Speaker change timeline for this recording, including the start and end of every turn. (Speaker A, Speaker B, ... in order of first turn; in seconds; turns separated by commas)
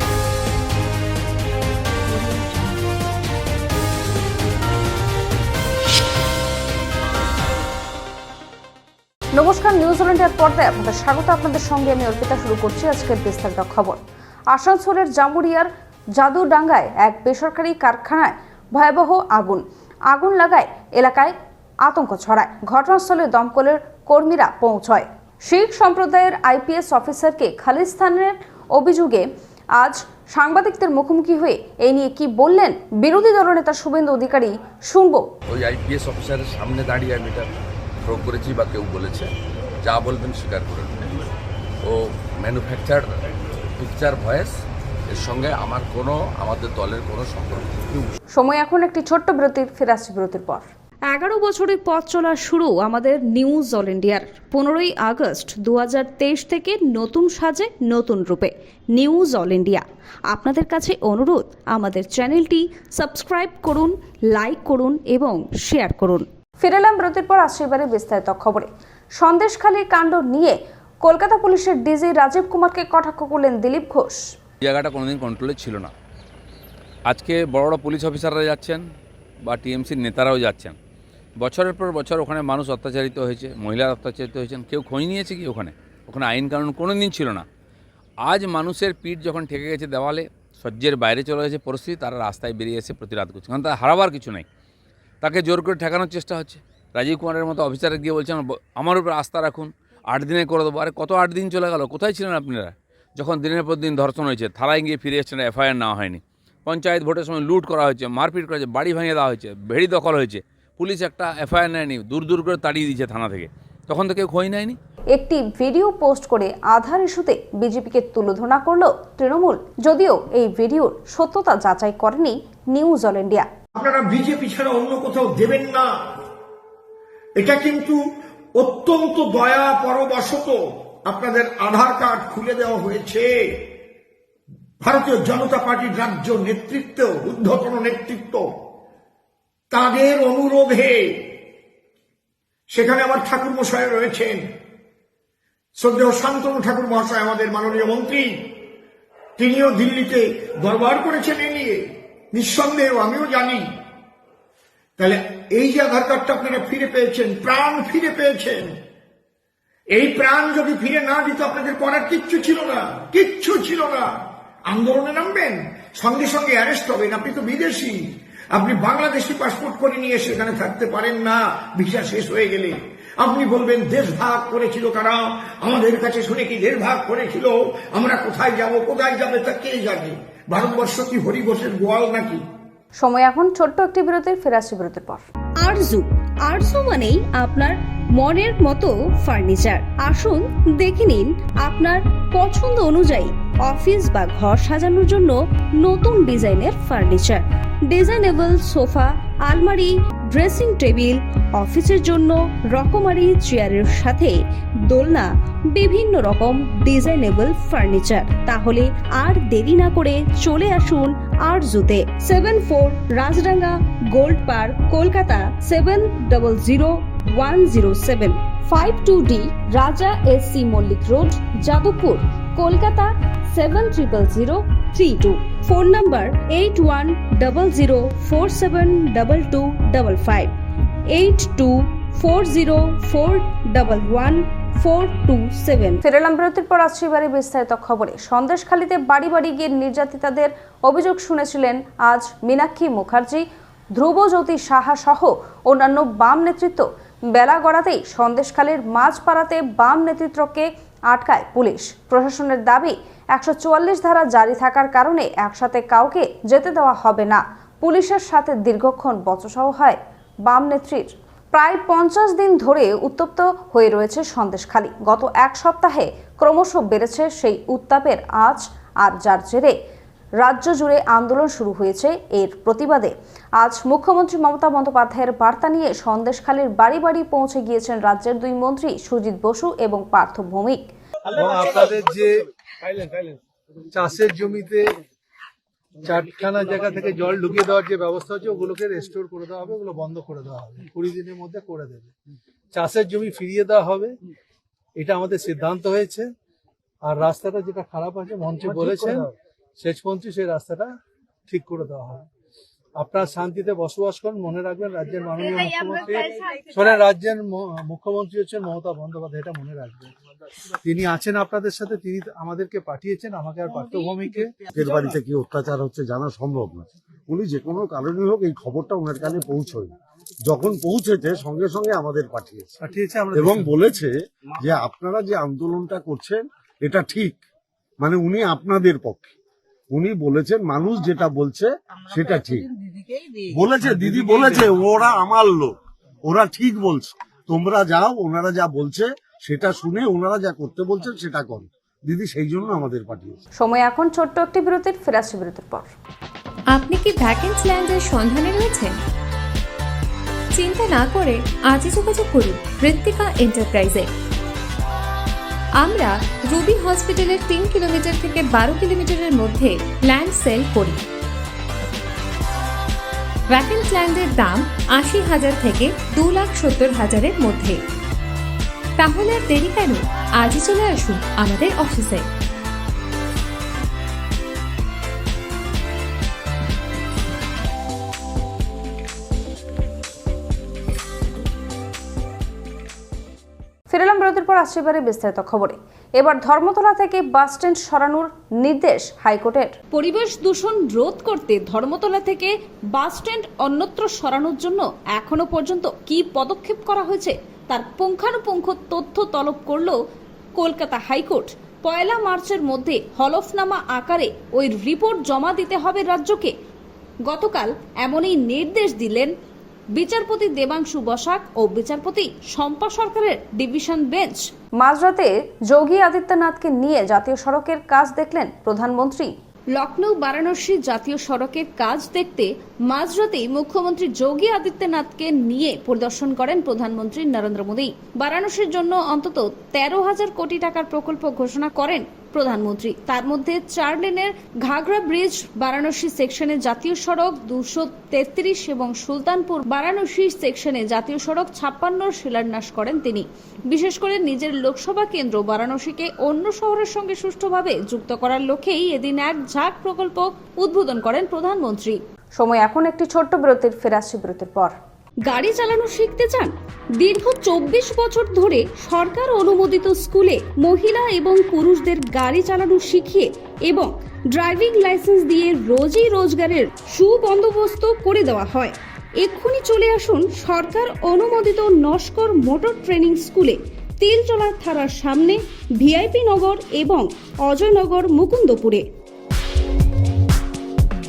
Speaker A: 9.3-14.0, Speaker A: 14.5-21.3, Speaker A: 21.9-29.3, Speaker A: 29.8-35.3, Speaker B: 35.5-37.5, Speaker B: 38.0-39.3, Speaker B: 39.8-41.1, Speaker B: 41.9-43.1, Speaker B: 43.8-44.5, Speaker B: 45.1-48.1, Speaker A: 48.4-50.6, Speaker A: 51.2-74.2, Speaker B: 74.6-75.9, Speaker B: 77.1-78.8, Speaker B: 79.4-80.8, Speaker B: 81.4-87.4, Speaker B: 88.2-94.5, Speaker B: 95.2-114.8, Speaker A: 115.1-123.5, Speaker C: 123.8-125.9, Speaker C: 127.4-128.0, Speaker C: 128.6-133.6, Speaker C: 134.8-138.5, Speaker C: 139.7-141.3, Speaker C: 142.7-144.4, Speaker C: 145.8-148.5, Speaker C: 149.4-153.7, Speaker C: 155.0-158.7, Speaker C: 159.9-164.1, Speaker C: 164.7-182.4, Speaker A: 183.0-185.2, Speaker D: 185.6-204.3, Speaker A: 192.4-193.1, Speaker A: 196.8-197.3, Speaker A: 198.0-199.0, Speaker D: 204.9-218.3, Speaker A: 207.3-207.7, Speaker A: 210.5-210.8, Speaker A: 214.9-215.8, Speaker A: 217.7-218.2, Speaker A: 218.7-223.0, Speaker D: 219.6-224.5, Speaker A: 223.9-226.3, Speaker D: 225.1-230.5, Speaker A: 227.9-228.4, Speaker D: 231.1-231.7, Speaker A: 231.3-231.6, Speaker D: 232.2-234.4, Speaker A: 233.7-234.2, Speaker A: 234.8-243.4, Speaker D: 235.2-235.9, Speaker A: 243.9-269.7, Speaker A: 270.4-280.8, Speaker E: 281.3-283.3, Speaker E: 283.9-284.9, Speaker E: 286.0-292.1, Speaker E: 292.7-294.1, Speaker E: 295.0-296.3, Speaker E: 297.1-300.9, Speaker E: 301.5-302.2, Speaker E: 303.0-310.1, Speaker E: 310.8-314.6, Speaker F: 314.7-322.6, Speaker E: 322.8-323.7, Speaker F: 323.3-327.4, Speaker F: 328.0-329.3, Speaker F: 329.9-332.7, Speaker F: 333.5-335.8, Speaker F: 336.2-343.4, Speaker A: 343.6-345.9, Speaker G: 346.8-348.9, Speaker G: 350.6-353.9, Speaker G: 355.9-360.9, Speaker G: 363.6-367.7, Speaker G: 369.1-372.2, Speaker A: 383.9-389.7, Speaker D: 389.9-399.9, Speaker D: 400.6-406.5, Speaker D: 407.3-409.3, Speaker D: 409.9-414.4, Speaker A: 414.8-419.3, Speaker D: 419.7-452.0, Speaker A: 452.4-454.7, Speaker D: 455.3-456.5, Speaker D: 457.0-462.8, Speaker A: 457.4-457.8, Speaker A: 460.2-463.9, Speaker A: 464.4-477.0, Speaker D: 471.7-473.1, Speaker D: 474.1-475.3, Speaker D: 476.4-478.8, Speaker A: 477.5-478.8